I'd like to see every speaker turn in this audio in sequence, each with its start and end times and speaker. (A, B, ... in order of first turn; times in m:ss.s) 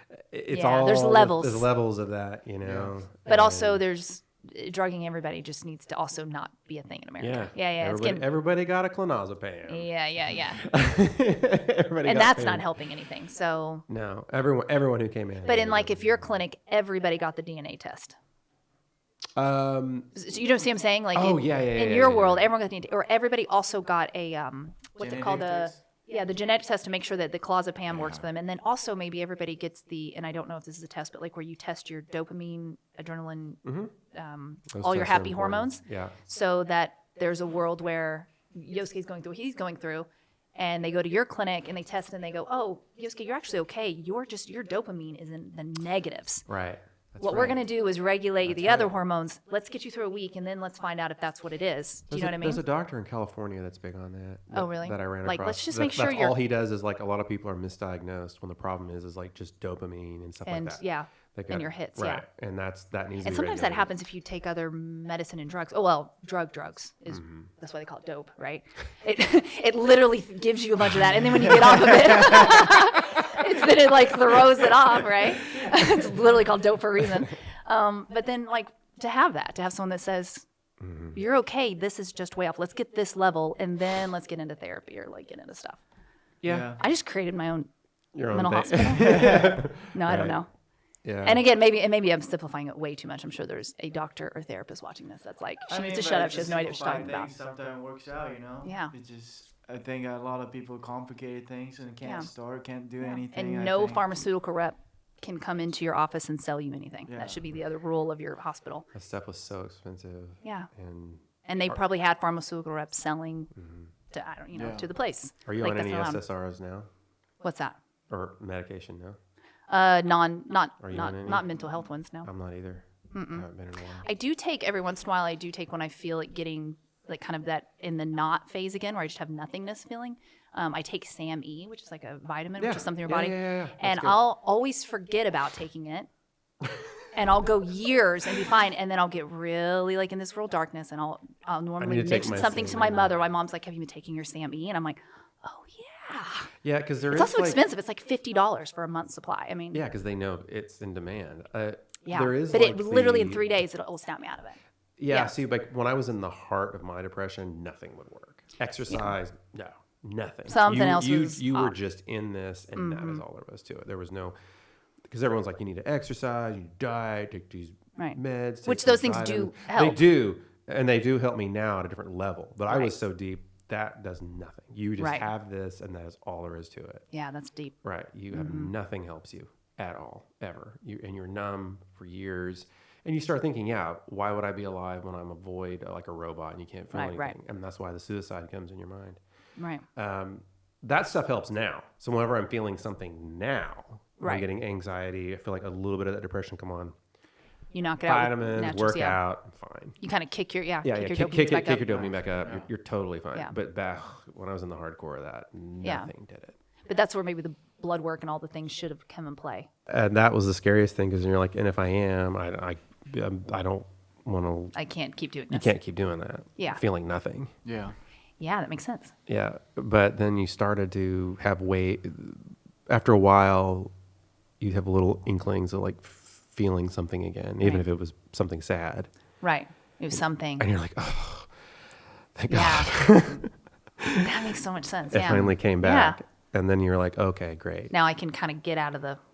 0:00.3-0:03.8 A
0:00.5-0:01.7 B
0:02.6-0:02.9 C
0:03.3-0:08.2 B
0:07.2-0:12.7 A
0:09.7-0:10.7 B
0:12.0-0:13.8 B
0:13.9-0:16.2 A
0:15.4-0:18.1 B
0:19.4-0:20.1 A
0:20.1-0:46.4 B
0:21.1-0:22.5 A
0:25.0-0:25.8 C
0:27.9-0:28.3 A
0:33.6-0:33.9 A
0:34.7-0:36.2 A
0:46.5-0:47.6 A
0:47.2-0:52.6 B
0:48.4-0:49.0 A
0:52.1-1:03.9 A
0:54.5-0:56.4 B
1:00.4-1:02.2 B
1:03.2-1:20.4 B
1:07.1-1:07.5 A
1:20.8-1:21.2 A
1:21.1-1:25.8 B
1:26.4-1:26.7 A
1:26.4-1:26.8 C
1:26.8-1:27.7 B
1:28.1-1:30.4 A
1:28.3-1:30.5 B
1:29.1-1:29.6 C
1:31.0-1:31.4 A
1:31.2-1:37.3 B
1:35.7-1:44.0 C
1:38.6-1:38.9 B
1:42.0-1:42.3 B
1:43.0-1:48.9 B
1:47.1-1:47.4 C
1:48.9-1:51.8 A
1:51.5-1:53.5 B
1:53.5-1:53.9 A
1:54.1-1:56.2 B
1:54.5-1:54.9 C
1:55.4-1:56.9 A
1:57.4-1:57.8 B
1:58.1-1:59.2 A
1:59.7-2:02.3 B
2:00.8-2:01.6 A
2:02.2-2:04.0 A
2:03.1-2:03.5 B
2:04.0-2:16.1 B
2:12.6-2:14.2 A
2:17.1-2:26.5 B
2:21.8-2:23.2 A
2:26.6-2:27.6 A
2:27.1-2:29.8 B
2:29.7-2:33.4 A
2:32.0-2:34.6 B
2:35.0-2:44.3 A
2:35.1-2:35.3 B
2:38.9-2:39.1 B
2:40.5-2:41.8 B
2:42.7-2:43.2 B
2:45.1-2:57.0 A
2:48.0-2:50.0 B
2:52.7-2:53.0 B
2:55.0-2:55.3 B
2:57.1-2:57.8 B
2:57.8-3:09.2 A
2:58.3-2:58.7 B
3:06.9-3:07.3 B
3:09.6-3:09.8 B
3:10.0-3:16.9 A
3:14.2-3:14.4 B
3:17.7-3:19.2 B
3:18.0-3:20.0 A
3:20.0-3:22.1 B
3:20.8-3:26.6 A
3:25.8-3:26.1 B
3:26.9-3:29.7 B
3:29.9-3:34.7 A
3:34.7-3:35.7 B
3:35.5-3:37.5 A
3:37.6-3:38.0 C
3:38.4-3:39.1 B
3:39.3-3:43.9 A
3:44.6-3:49.1 A
3:49.4-3:50.6 B
3:50.1-3:51.5 A
3:52.4-3:54.3 A
3:52.5-3:53.0 B
3:54.2-3:56.2 B
3:55.1-3:57.9 A
3:57.9-3:59.2 B